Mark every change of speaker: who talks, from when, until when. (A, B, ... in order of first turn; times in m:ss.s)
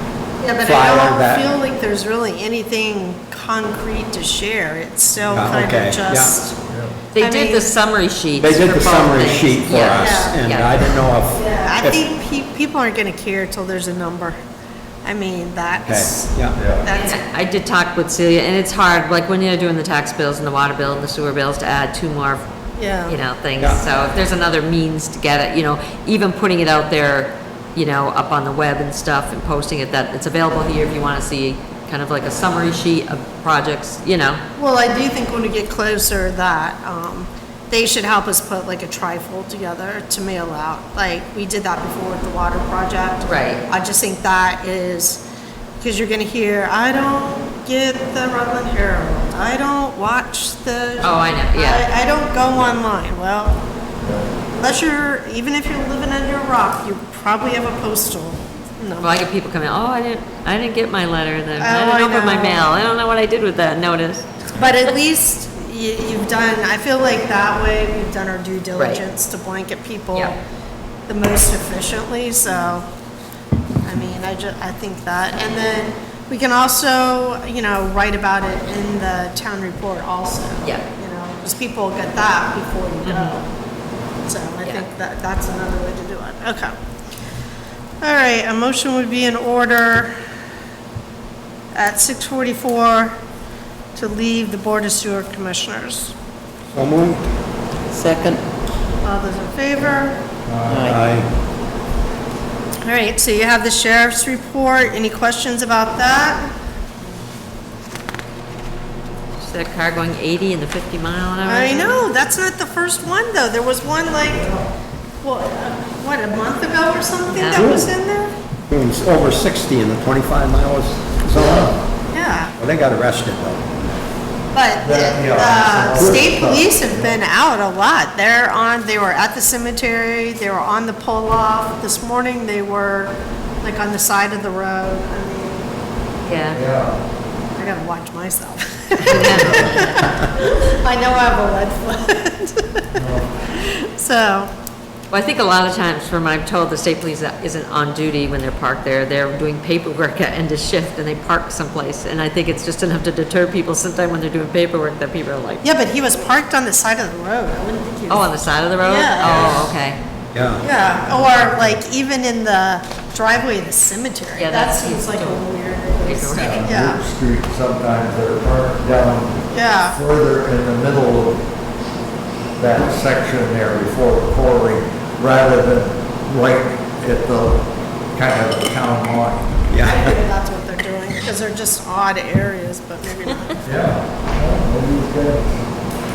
0:00.4-0:06.6 A
0:00.6-0:01.5 B
0:05.3-0:06.4 B
0:06.7-0:07.0 C
0:07.1-0:10.7 D
0:07.2-0:07.7 A
0:08.4-0:12.0 B
0:09.9-0:10.4 A
0:11.3-0:14.4 A
0:15.0-0:17.2 A
0:15.8-0:16.6 B
0:16.5-0:16.9 C
0:16.9-0:22.5 D
0:22.8-0:23.2 A
0:23.0-0:34.4 D
0:23.6-0:23.8 B
0:34.6-0:45.2 A
0:43.2-0:43.6 D
0:45.8-0:53.6 A
0:51.0-0:51.8 D
0:54.0-0:54.3 C
0:54.5-0:59.2 A
0:59.0-1:04.6 D
1:01.6-1:02.7 A
1:04.5-1:10.4 A
1:08.8-1:09.0 D
1:11.1-1:12.8 A
1:13.8-1:23.4 A
1:23.0-1:23.3 D
1:24.2-1:26.7 A
1:28.0-1:30.1 A
1:31.7-1:33.1 A
1:33.9-1:36.1 A
1:36.7-1:37.2 B
1:39.0-1:40.2 A
1:40.4-1:40.9 C
1:40.8-1:41.3 B
1:42.8-1:46.5 A
1:49.4-1:52.0 D
1:51.4-1:54.5 A
1:54.2-1:54.7 C
1:55.2-1:58.3 A
1:57.3-1:57.6 D
1:57.5-1:57.9 B
1:58.7-2:01.8 B
2:01.3-2:01.8 C
2:02.1-2:02.5 A
2:02.6-2:03.6 B
2:04.5-2:15.7 A
2:04.8-2:07.2 C
2:16.2-2:16.6 D
2:16.5-2:17.0 C
2:17.5-2:24.5 A
2:19.0-2:20.0 D
2:19.1-2:19.6 C
2:22.9-2:23.3 C
2:25.1-2:35.7 D
2:35.6-2:38.3 A
2:38.1-2:40.0 D
2:38.8-2:39.7 A
2:39.2-2:39.6 C
2:40.3-2:40.7 B
2:40.6-2:47.0 A
2:44.4-2:45.4 D
2:46.0-2:46.6 D
2:46.4-2:51.5 C
2:49.5-2:50.0 A
2:52.6-2:59.8 C
2:59.7-3:00.1 B
2:59.8-3:03.8 A
3:03.6-3:05.7 C